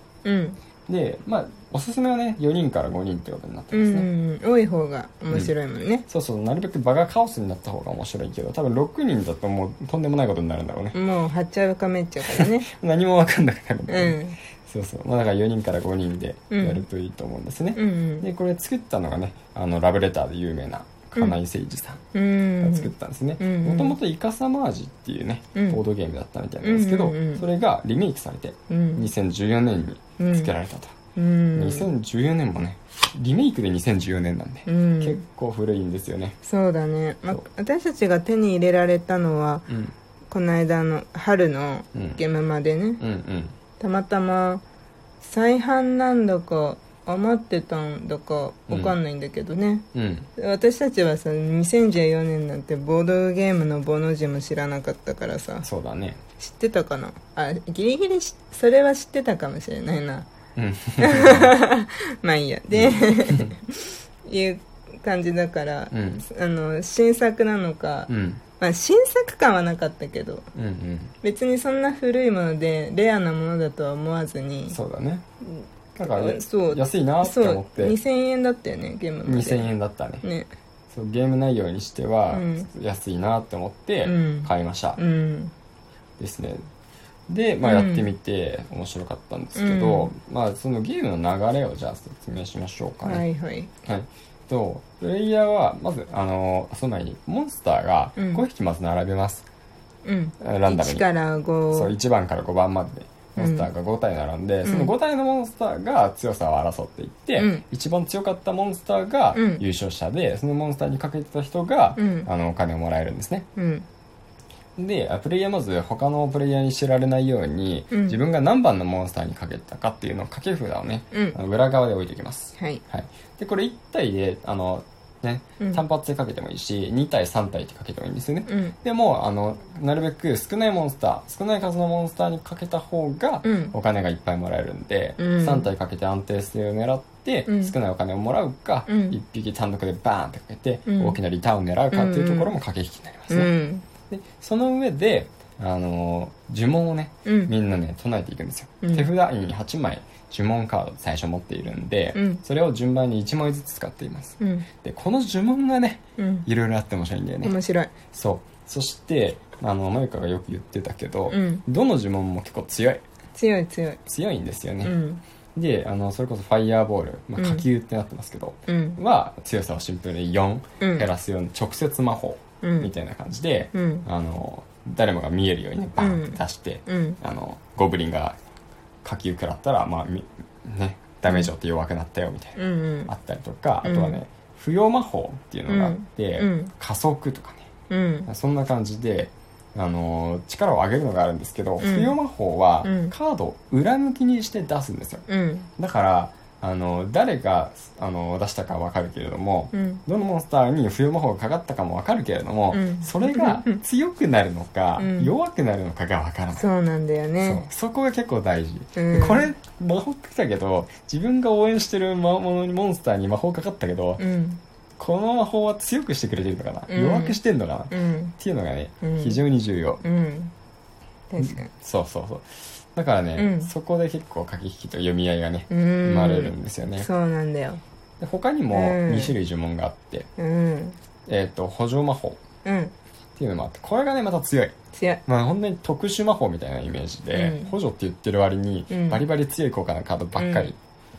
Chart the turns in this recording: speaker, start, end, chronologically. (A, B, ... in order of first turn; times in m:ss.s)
0:00.2-0:00.6 A
0:00.9-0:04.1 B
0:03.7-0:06.0 A
0:06.1-0:11.0 B
0:10.9-0:12.7 A
0:12.4-0:22.0 B
0:13.9-0:14.4 A
0:16.5-0:16.8 A
0:17.7-0:18.3 A
0:22.1-0:24.0 A
0:22.6-0:31.0 B
0:25.5-0:25.8 A
0:26.6-0:27.4 A
0:28.7-0:29.1 A
0:30.2-0:30.5 A
0:31.2-0:31.9 A
0:31.5-0:36.4 B
0:34.6-0:35.2 A
0:36.4-0:39.6 A
0:39.7-0:39.9 B
0:40.3-0:43.0 A
0:41.9-0:42.2 B
0:43.0-0:43.6 B
0:43.8-0:44.6 A
0:45.2-0:49.8 A
0:48.7-0:49.0 B
0:49.9-0:50.3 B
0:50.4-0:55.7 A
0:55.6-0:56.2 B
0:56.4-1:00.3 A
1:00.6-1:01.5 B
1:01.0-1:10.5 A
1:02.7-1:03.5 B
1:05.9-1:06.2 B
1:08.1-1:08.4 B
1:10.5-1:11.1 B
1:11.2-1:14.8 A
1:14.7-1:15.2 B
1:15.4-1:19.7 A
1:16.0-1:18.0 B
1:19.2-1:20.2 B
1:20.2-1:20.5 A
1:20.9-1:25.0 B
1:22.3-1:22.7 A
1:24.0-1:25.5 A
1:26.2-1:26.6 B
1:27.3-1:33.2 B
1:27.6-1:28.1 A
1:29.5-1:30.1 A
1:33.0-1:33.7 A
1:33.8-1:39.5 B
1:38.2-1:38.4 A
1:40.0-1:41.9 A
1:40.4-1:41.1 B
1:41.7-1:53.5 B
1:43.4-1:43.7 A
1:44.6-1:44.9 A
1:47.4-1:47.6 A
1:49.3-1:49.6 A
1:52.0-1:52.3 A
1:53.6-1:53.8 A
1:54.8-2:23.5 B
1:57.9-1:58.2 A
2:01.1-2:01.4 A
2:02.6-2:02.8 A
2:08.5-2:08.8 A
2:13.4-2:13.7 A
2:15.2-2:15.7 A
2:17.4-2:17.7 A
2:18.9-2:19.2 A
2:20.9-2:21.2 A
2:21.9-2:22.5 A
2:23.3-2:23.8 A
2:24.1-2:37.6 B
2:27.2-2:27.5 A
2:28.8-2:29.1 A
2:32.1-2:32.4 A
2:34.4-2:34.7 A
2:36.2-2:36.5 A
2:37.4-2:38.0 A
2:38.1-2:43.0 B
2:41.3-2:41.6 A
2:43.4-2:44.0 A
2:44.1-2:44.9 B
2:44.8-2:45.2 A
2:45.5-2:58.4 B
2:47.4-2:47.6 A
2:48.7-2:49.0 A
2:50.8-2:51.1 A
2:52.6-2:52.9 A
2:53.7-2:54.0 A
2:56.0-2:57.2 A
2:59.0-3:07.7 B
3:02.6-3:03.1 A
3:03.8-3:04.2 A
3:05.7-3:06.7 A
3:07.9-3:08.3 A
3:08.3-3:15.2 B
3:11.8-3:12.2 A
3:12.8-3:13.1 A
3:15.3-3:15.7 A
3:15.8-3:26.6 B
3:19.7-3:20.0 A
3:22.7-3:23.8 A
3:25.0-3:25.3 A
3:26.6-3:27.7 A
3:27.4-3:34.2 B
3:28.9-3:29.5 A
3:34.2-3:34.6 A
3:35.0-3:40.0 B
3:36.9-3:37.4 A
3:37.9-3:38.3 A
3:39.0-3:39.4 A
3:40.0-3:40.5 A
3:41.3-3:41.7 A
3:41.4-3:47.1 B
3:43.4-3:43.7 A
3:45.7-3:47.8 A
3:48.2-3:50.3 B
3:48.7-3:49.3 A
3:50.4-3:51.0 A
3:51.3-3:52.4 B
3:52.6-3:52.9 A
3:53.4-3:54.7 B
3:54.9-3:55.2 A
3:55.3-4:00.8 B
3:57.3-3:57.7 A
3:58.9-3:59.2 A
4:00.4-4:00.7 A